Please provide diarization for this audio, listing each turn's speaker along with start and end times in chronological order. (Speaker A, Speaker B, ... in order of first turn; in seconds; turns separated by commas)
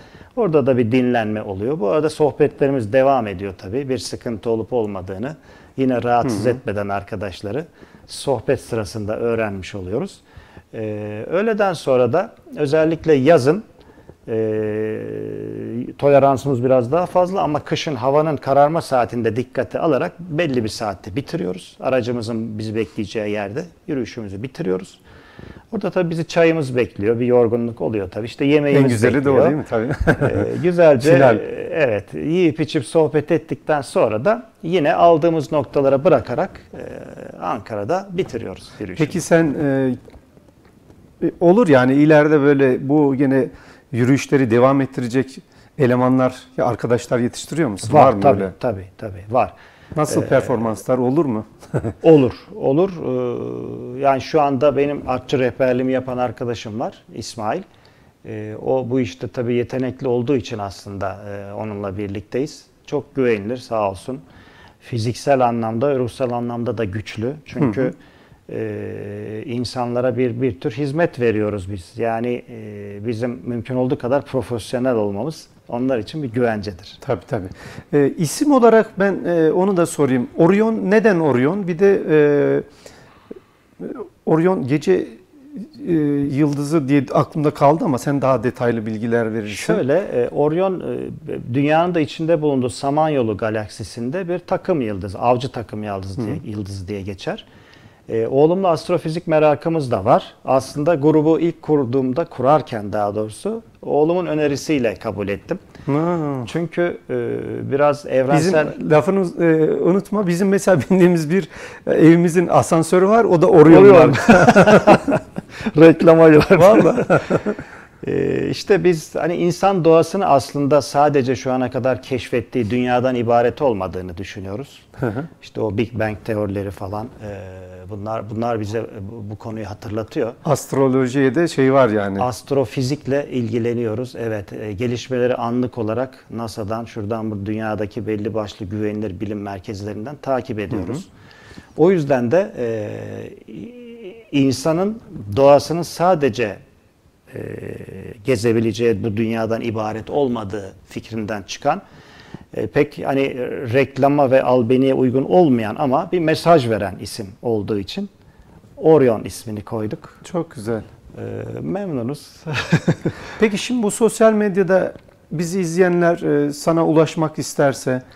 Speaker A: 0.4-10.2, Speaker B: 6.2-6.6, Speaker A: 10.7-13.6, Speaker A: 14.3-25.0, Speaker A: 25.7-29.6, Speaker B: 28.7-30.5, Speaker A: 30.2-39.2, Speaker B: 31.0-31.4, Speaker B: 39.0-40.0, Speaker B: 41.2-48.5, Speaker A: 47.9-49.5, Speaker B: 50.0-51.9, Speaker A: 50.1-50.5, Speaker A: 52.0-57.6, Speaker A: 58.2-64.2, Speaker A: 64.8-68.0, Speaker B: 67.6-67.9, Speaker A: 68.5-77.0, Speaker B: 77.0-82.7, Speaker B: 83.8-89.8, Speaker A: 89.5-97.4, Speaker A: 98.1-105.6, Speaker B: 105.9-106.5, Speaker A: 106.5-108.8, Speaker B: 108.3-115.2, Speaker A: 113.7-117.3, Speaker B: 116.5-117.6, Speaker A: 118.0-124.9, Speaker B: 125.0-125.3, Speaker A: 125.4-130.4, Speaker B: 130.4-132.3, Speaker A: 132.2-141.1, Speaker B: 140.7-141.0, Speaker A: 141.8-146.6, Speaker A: 147.3-151.8, Speaker A: 152.5-158.1, Speaker A: 158.8-160.2, Speaker B: 160.2-160.8, Speaker A: 161.1-163.1, Speaker B: 163.4-168.0